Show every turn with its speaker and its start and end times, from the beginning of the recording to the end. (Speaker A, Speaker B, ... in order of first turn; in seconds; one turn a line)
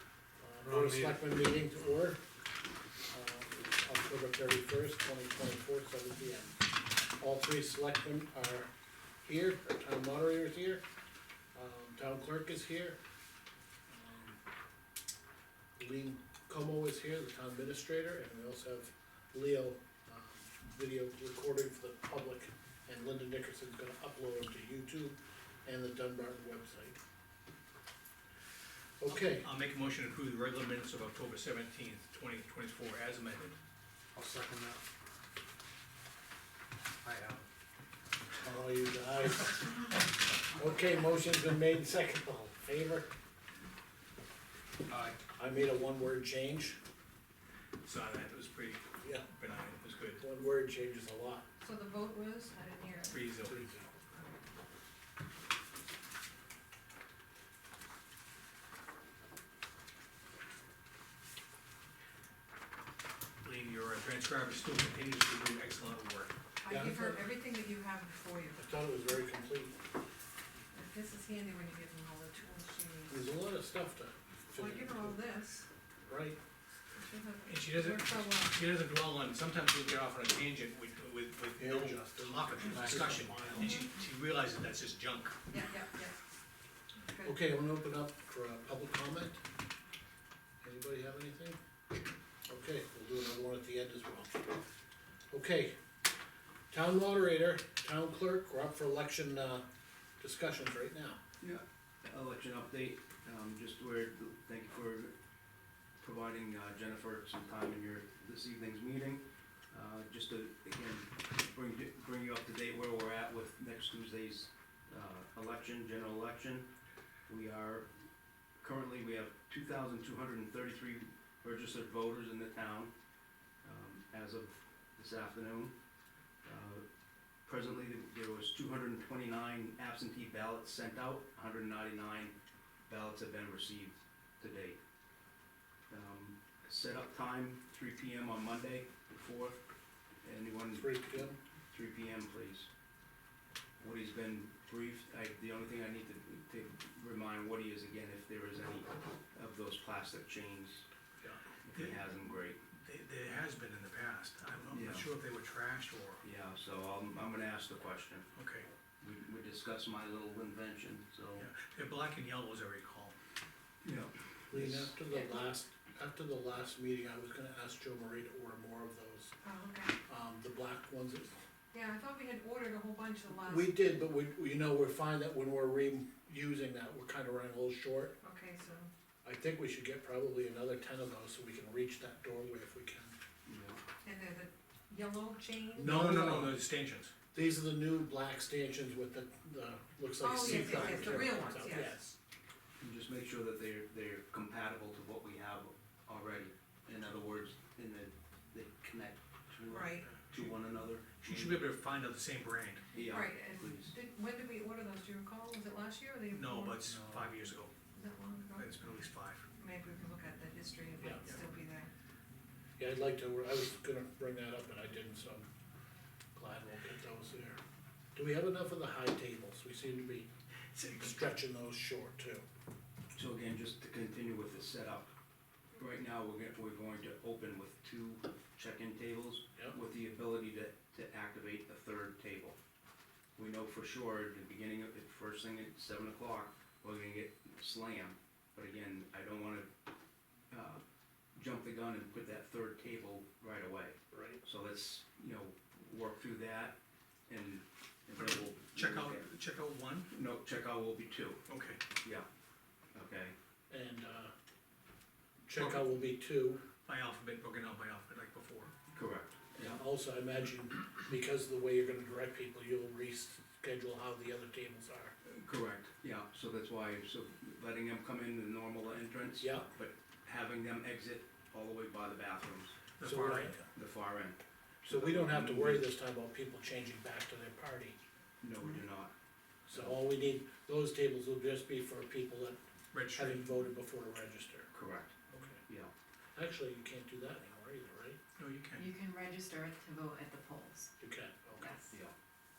Speaker A: 0.4-2.2
Speaker B: 0.6-1.2
Speaker A: 3.1-8.7
Speaker A: 9.2-10.8
Speaker A: 11.6-13.0
Speaker A: 13.9-14.4
Speaker A: 15.8-27.0
Speaker A: 29.0-29.5
Speaker C: 29.1-33.6
Speaker B: 34.1-34.8
Speaker B: 37.0-37.4
Speaker A: 38.4-43.1
Speaker A: 45.4-46.8
Speaker C: 47.8-50.2
Speaker A: 49.0-49.3
Speaker A: 50.2-51.5
Speaker D: 51.6-53.3
Speaker C: 53.1-53.6
Speaker A: 53.4-53.9
Speaker C: 63.4-66.3
Speaker D: 66.6-68.6
Speaker A: 66.7-67.3
Speaker A: 68.6-69.8
Speaker D: 70.7-73.3
Speaker A: 73.1-75.2
Speaker D: 74.6-75.7
Speaker A: 76.1-76.4
Speaker D: 76.9-78.7
Speaker C: 77.5-85.4
Speaker A: 81.6-83.6
Speaker B: 82.7-83.7
Speaker D: 83.6-84.0
Speaker D: 85.5-86.2
Speaker D: 87.1-87.3
Speaker A: 87.2-89.4
Speaker A: 90.6-91.6
Speaker A: 92.5-94.5
Speaker A: 95.3-95.8
Speaker A: 96.7-99.7
Speaker A: 100.2-101.2
Speaker E: 101.4-105.1
Speaker E: 106.0-116.7
Speaker E: 117.3-117.9
Speaker E: 118.6-122.9
Speaker E: 123.6-125.7
Speaker E: 126.4-126.8
Speaker E: 127.5-132.3
Speaker E: 132.9-134.8
Speaker E: 135.9-139.6
Speaker E: 140.2-142.7
Speaker A: 140.7-141.4
Speaker E: 143.8-150.9
Speaker E: 151.6-152.6
Speaker C: 151.7-152.0
Speaker C: 152.7-156.2
Speaker E: 154.7-155.1
Speaker E: 156.2-158.3
Speaker C: 158.4-158.7
Speaker E: 159.0-161.5
Speaker C: 161.4-163.2
Speaker E: 163.8-164.9
Speaker A: 164.5-169.3
Speaker D: 165.1-165.4
Speaker D: 169.4-170.0
Speaker A: 170.1-171.3
Speaker D: 171.7-173.8
Speaker A: 173.4-178.2
Speaker D: 178.2-178.9
Speaker A: 179.2-183.2
Speaker E: 183.5-183.8
Speaker D: 184.0-186.1
Speaker A: 185.8-186.6
Speaker C: 185.8-187.1
Speaker A: 187.3-192.2
Speaker D: 190.2-192.0
Speaker E: 190.5-191.2
Speaker E: 192.8-201.7
Speaker D: 199.7-200.1
Speaker C: 200.1-200.5
Speaker C: 201.2-202.9
Speaker E: 202.9-203.9
Speaker D: 203.0-206.8
Speaker C: 206.3-207.7
Speaker A: 206.9-207.4
Speaker D: 207.9-208.7
Speaker C: 208.6-209.4
Speaker D: 209.6-211.9
Speaker A: 212.8-215.5
Speaker A: 216.4-217.6
Speaker A: 218.2-222.4
Speaker E: 223.2-225.1
Speaker E: 225.8-232.6
Speaker E: 233.4-239.7
Speaker E: 240.5-240.8
Speaker E: 241.4-246.8
Speaker A: 244.1-244.4
Speaker E: 247.3-249.3
Speaker C: 248.2-250.1
Speaker E: 250.1-251.4
Speaker C: 251.5-251.8
Speaker E: 252.9-253.3
Speaker A: 253.7-254.3
Speaker A: 255.5-256.6
Speaker C: 255.6-256.0
Speaker C: 256.9-258.7
Speaker E: 258.9-259.8
Speaker A: 259.6-265.1
Speaker E: 265.2-272.8
Speaker A: 269.4-269.7
Speaker C: 273.0-273.7
Speaker A: 273.0-273.6
Speaker E: 273.7-275.9
Speaker A: 274.9-278.0
Speaker E: 278.4-279.1
Speaker A: 279.7-282.6
Speaker E: 279.7-280.0
Speaker C: 282.9-283.4
Speaker A: 283.1-284.7
Speaker E: 284.7-285.2
Speaker A: 285.3-285.6
Speaker E: 285.7-285.9
Speaker A: 286.4-288.2
Speaker C: 288.4-288.9
Speaker F: 288.8-290.9
Speaker A: 291.0-291.7
Speaker F: 291.6-291.9